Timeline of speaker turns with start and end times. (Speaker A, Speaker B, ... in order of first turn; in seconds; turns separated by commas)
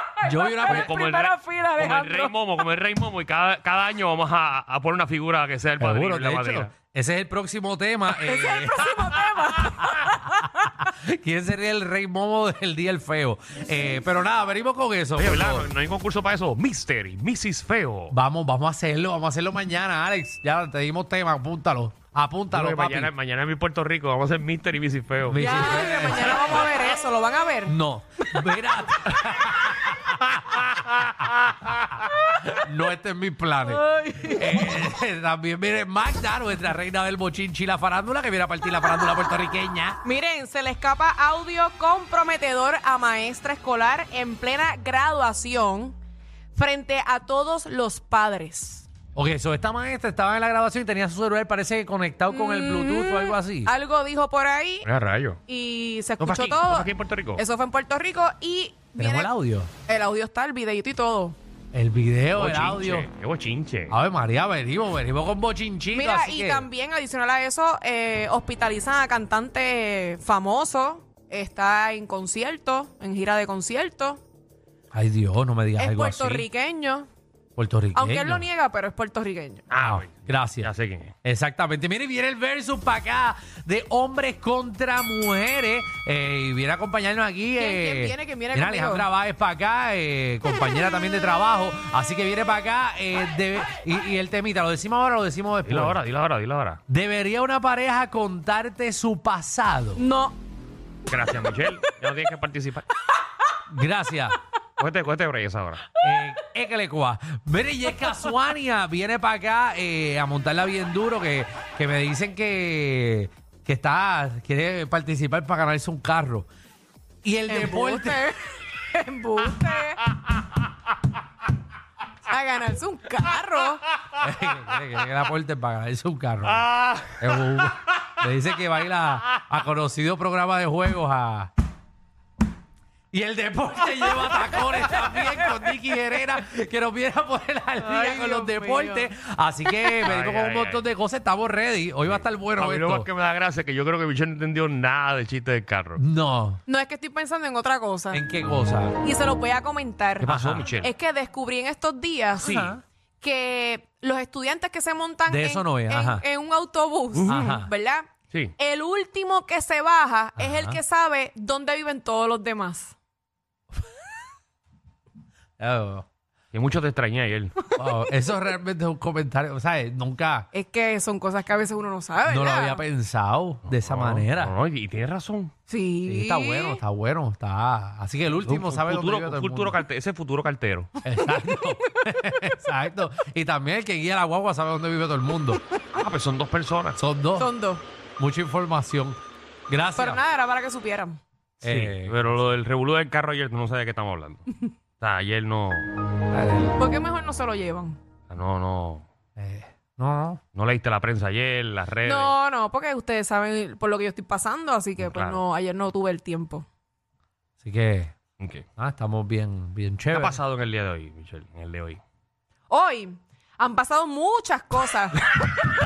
Speaker A: 0.2-2.4, Speaker B: 0.2-1.0, Speaker C: 0.7-6.7, Speaker B: 5.8-10.1, Speaker A: 8.1-10.7, Speaker B: 10.8-15.7, Speaker C: 15.2-18.1, Speaker B: 18.1-23.1, Speaker C: 22.5-25.4, Speaker B: 25.3-26.7, Speaker A: 25.4-27.8, Speaker B: 27.6-30.6, Speaker C: 30.2-32.1, Speaker B: 32.5-40.0, Speaker A: 33.9-34.4, Speaker A: 40.0-46.0, Speaker A: 46.5-48.9, Speaker B: 49.1-53.7, Speaker A: 52.3-54.9, Speaker C: 54.8-55.4, Speaker A: 55.5-59.3, Speaker C: 56.2-57.4, Speaker B: 59.0-59.7, Speaker A: 59.9-61.4, Speaker B: 61.7-63.1, Speaker C: 62.3-64.0, Speaker B: 63.9-66.7, Speaker A: 65.9-74.2, Speaker B: 74.9-76.5, Speaker A: 75.8-77.1, Speaker B: 77.6-78.5, Speaker A: 77.9-79.7, Speaker C: 79.7-81.1, Speaker B: 79.8-80.7, Speaker B: 81.2-96.0, Speaker A: 87.5-89.1, Speaker C: 95.6-96.8, Speaker B: 96.9-100.0, Speaker A: 100.0-100.4, Speaker C: 101.1-102.9, Speaker B: 103.7-104.4, Speaker C: 104.8-105.8, Speaker B: 106.0-116.5, Speaker B: 117.2-118.3, Speaker A: 117.5-120.0, Speaker A: 122.3-123.8, Speaker B: 124.2-126.7, Speaker C: 126.4-127.7, Speaker B: 127.2-131.5, Speaker B: 133.1-143.1, Speaker A: 137.8-139.1, Speaker C: 140.0-140.9, Speaker C: 142.1-146.0, Speaker B: 146.0-146.6, Speaker A: 146.7-148.2, Speaker B: 148.1-149.0, Speaker A: 149.0-152.6, Speaker C: 150.2-150.9, Speaker B: 150.2-150.7, Speaker B: 152.4-152.8, Speaker C: 152.4-152.8, Speaker A: 153.2-163.0, Speaker B: 155.3-156.2, Speaker C: 157.1-157.4, Speaker B: 157.3-157.7, Speaker B: 160.4-160.8, Speaker B: 165.6-166.1, Speaker C: 166.5-167.6, Speaker B: 167.7-170.5, Speaker A: 170.5-172.8, Speaker B: 172.3-174.6, Speaker C: 173.7-175.5, Speaker A: 175.7-176.8, Speaker B: 176.1-179.8, Speaker C: 178.4-180.9, Speaker B: 181.0-185.6, Speaker C: 185.9-187.0, Speaker B: 186.9-187.5, Speaker A: 187.4-187.8, Speaker B: 188.2-190.2, Speaker A: 190.0-191.2, Speaker C: 191.6-194.5, Speaker B: 191.6-192.3, Speaker C: 195.0-195.9, Speaker B: 196.3-196.8, Speaker A: 196.8-198.0, Speaker C: 198.3-199.1, Speaker B: 199.4-200.4, Speaker C: 200.5-202.4, Speaker A: 202.1-206.7, Speaker C: 205.0-205.4, Speaker B: 207.6-208.1, Speaker C: 208.4-208.7, Speaker B: 208.8-210.4, Speaker C: 210.1-212.0, Speaker A: 212.7-215.3